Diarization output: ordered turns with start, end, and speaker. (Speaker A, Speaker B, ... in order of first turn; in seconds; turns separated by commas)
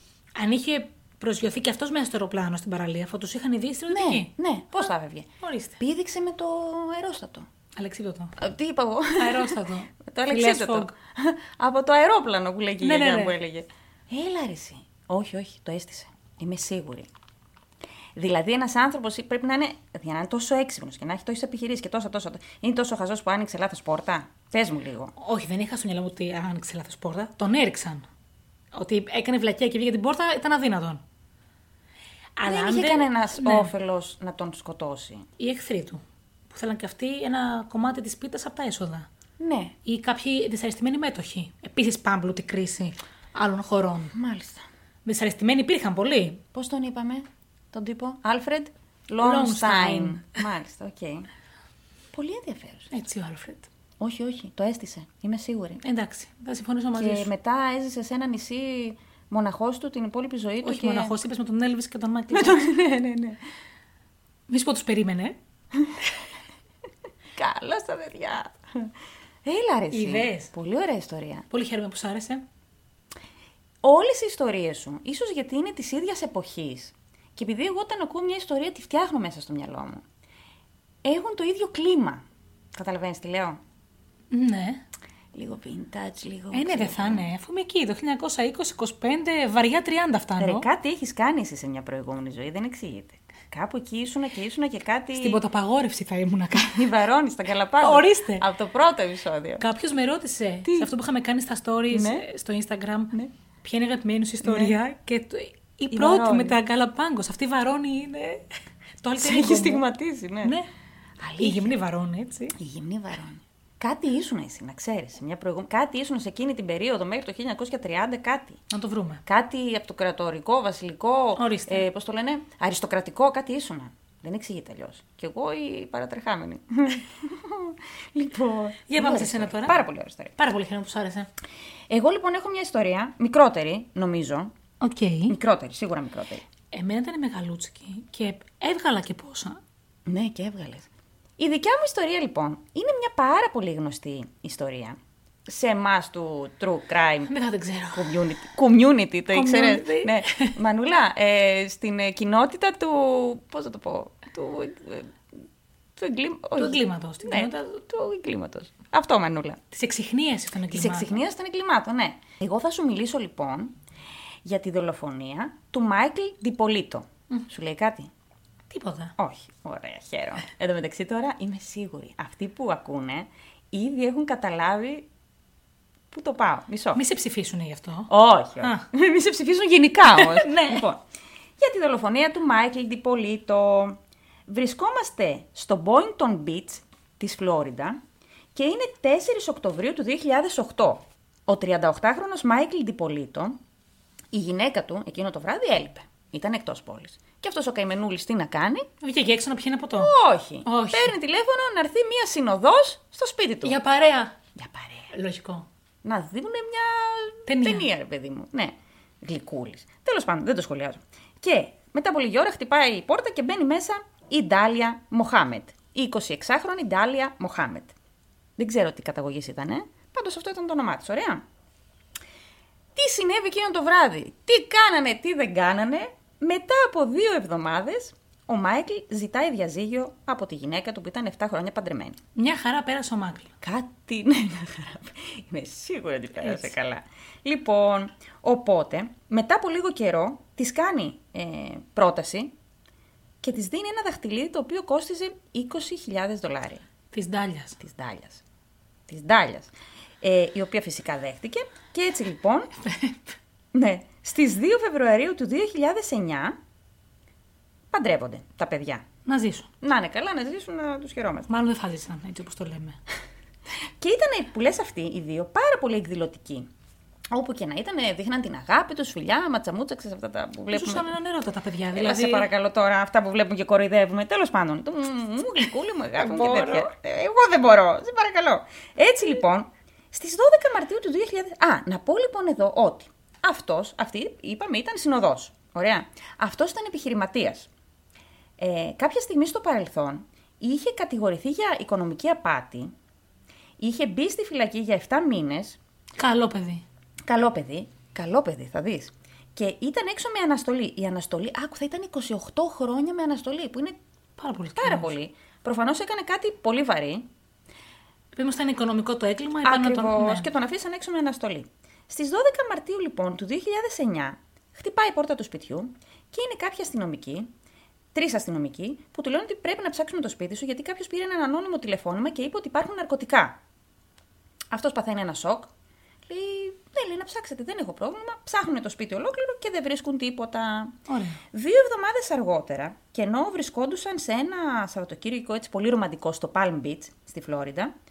Speaker A: 0.3-4.9, Speaker B: 3.9-7.5, Speaker A: 5.4-5.8, Speaker A: 7.8-8.4, Speaker B: 8.4-17.1, Speaker A: 9.2-10.9, Speaker A: 12.8-13.3, Speaker B: 18.1-25.1, Speaker A: 25.1-28.1, Speaker A: 28.7-31.0, Speaker A: 32.4-33.7, Speaker B: 32.5-35.3, Speaker A: 35.4-39.1, Speaker B: 39.4-39.7, Speaker A: 39.8-44.1, Speaker B: 44.1-44.6, Speaker A: 45.0-46.4, Speaker B: 46.5-51.3, Speaker A: 49.2-50.4, Speaker B: 52.1-52.9, Speaker A: 52.9-53.7, Speaker B: 54.0-55.8, Speaker A: 55.8-57.3, Speaker B: 56.9-61.1, Speaker A: 60.6-62.6, Speaker B: 62.3-63.4, Speaker A: 64.5-65.4, Speaker B: 67.3-68.9, Speaker B: 69.4-71.4, Speaker A: 69.9-70.5, Speaker A: 71.5-72.4, Speaker B: 73.8-80.0, Speaker B: 81.0-83.6, Speaker A: 84.3-84.8, Speaker B: 85.3-87.2, Speaker A: 86.5-90.7, Speaker B: 90.4-95.4, Speaker A: 95.1-96.9, Speaker B: 96.6-99.6, Speaker A: 97.8-98.5, Speaker A: 99.6-108.4, Speaker B: 100.6-100.9, Speaker B: 101.9-102.2, Speaker B: 104.4-104.8, Speaker B: 105.9-106.6, Speaker A: 109.0-109.8, Speaker B: 109.2-110.5, Speaker A: 110.4-110.7, Speaker B: 111.2-111.7, Speaker A: 111.4-112.5, Speaker B: 112.5-118.6, Speaker A: 118.7-119.2, Speaker B: 119.2-130.3, Speaker A: 121.3-121.8, Speaker A: 128.9-129.8, Speaker A: 130.4-131.3, Speaker B: 131.9-134.5, Speaker A: 134.8-135.3, Speaker B: 135.3-136.4, Speaker A: 136.7-139.6, Speaker B: 140.1-147.3, Speaker A: 147.2-148.2, Speaker B: 147.9-155.2, Speaker A: 149.3-150.6, Speaker B: 155.9-159.6, Speaker A: 156.6-157.8, Speaker A: 159.7-161.1, Speaker B: 160.7-163.8, Speaker B: 164.4-168.1, Speaker A: 168.7-169.1, Speaker B: 169.2-175.1, Speaker B: 176.1-177.0, Speaker A: 176.9-178.1, Speaker B: 178.1-181.0, Speaker A: 178.6-178.9, Speaker A: 180.1-180.8, Speaker B: 181.6-188.0, Speaker B: 188.5-193.6, Speaker B: 194.3-198.9, Speaker A: 199.0-200.1, Speaker B: 199.9-203.8, Speaker A: 200.6-201.2, Speaker A: 203.6-204.3, Speaker B: 204.6-205.1, Speaker A: 205.1-205.7, Speaker B: 206.0-217.9, Speaker A: 207.4-207.9, Speaker B: 218.6-221.4, Speaker B: 222.9-232.2, Speaker A: 232.3-233.5, Speaker B: 233.6-242.5, Speaker B: 243.4-246.8, Speaker A: 247.1-247.8, Speaker B: 247.8-248.4, Speaker B: 249.1-252.7, Speaker A: 252.8-253.2, Speaker B: 253.7-256.6, Speaker B: 257.9-259.0, Speaker A: 259.2-259.7, Speaker B: 259.8-261.5, Speaker A: 261.5-263.0, Speaker B: 264.0-266.7, Speaker B: 267.3-271.1, Speaker A: 270.7-272.5, Speaker B: 271.9-287.7, Speaker A: 276.2-276.9, Speaker B: 288.6-292.9, Speaker B: 293.8-295.8, Speaker A: 296.2-296.8, Speaker B: 297.3-304.0, Speaker A: 304.4-305.1, Speaker B: 304.8-307.2, Speaker A: 308.4-310.5, Speaker B: 309.6-317.5, Speaker B: 318.1-323.6, Speaker B: 324.7-325.7, Speaker B: 326.3-330.9, Speaker A: 331.1-331.4, Speaker B: 331.5-337.9